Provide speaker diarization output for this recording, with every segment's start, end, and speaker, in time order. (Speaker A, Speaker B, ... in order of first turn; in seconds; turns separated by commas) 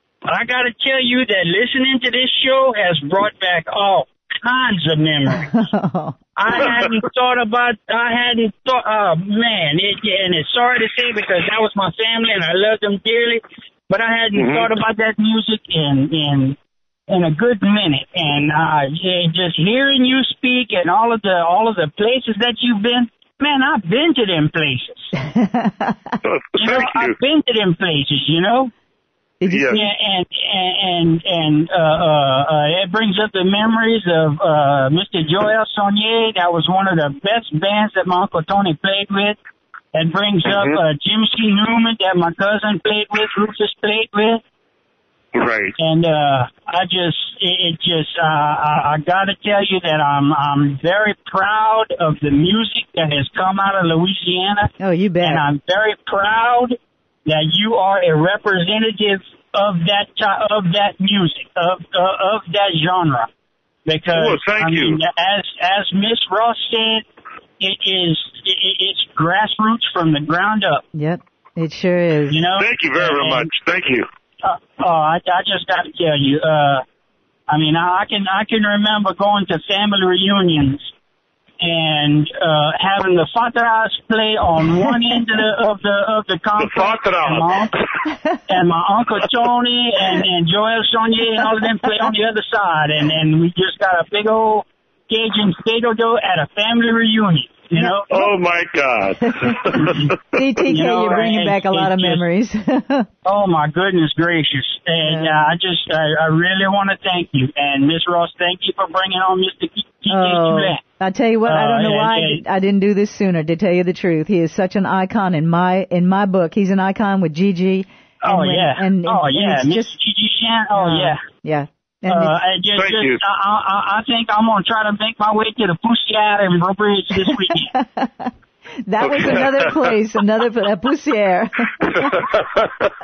Speaker A: 0.2-5.5, Speaker B: 5.4-6.2, Speaker A: 6.4-16.6, Speaker C: 14.3-14.7, Speaker A: 17.1-25.1, Speaker B: 25.2-26.2, Speaker C: 26.2-27.1, Speaker A: 26.6-28.7, Speaker B: 29.4-29.9, Speaker C: 29.5-29.8, Speaker A: 29.7-39.4, Speaker A: 39.9-44.4, Speaker C: 40.4-40.8, Speaker C: 45.3-45.8, Speaker A: 45.8-54.7, Speaker B: 54.8-55.4, Speaker A: 55.2-63.3, Speaker A: 63.9-67.0, Speaker C: 64.1-65.0, Speaker A: 67.6-70.8, Speaker B: 70.9-72.5, Speaker A: 72.3-73.5, Speaker C: 72.6-74.0, Speaker A: 74.4-76.8, Speaker A: 77.5-80.9, Speaker A: 81.6-87.8, Speaker C: 86.6-87.8, Speaker A: 88.5-98.1, Speaker C: 98.1-100.1, Speaker B: 99.4-103.1, Speaker A: 99.8-100.1, Speaker A: 100.7-102.2, Speaker A: 103.2-110.8, Speaker B: 105.0-105.5, Speaker B: 110.1-120.0, Speaker A: 111.5-112.4, Speaker A: 118.2-121.2, Speaker B: 120.7-122.4, Speaker A: 122.1-127.7, Speaker C: 122.7-123.2, Speaker B: 127.7-128.3, Speaker B: 128.8-132.3, Speaker C: 129.1-129.8, Speaker C: 131.9-132.9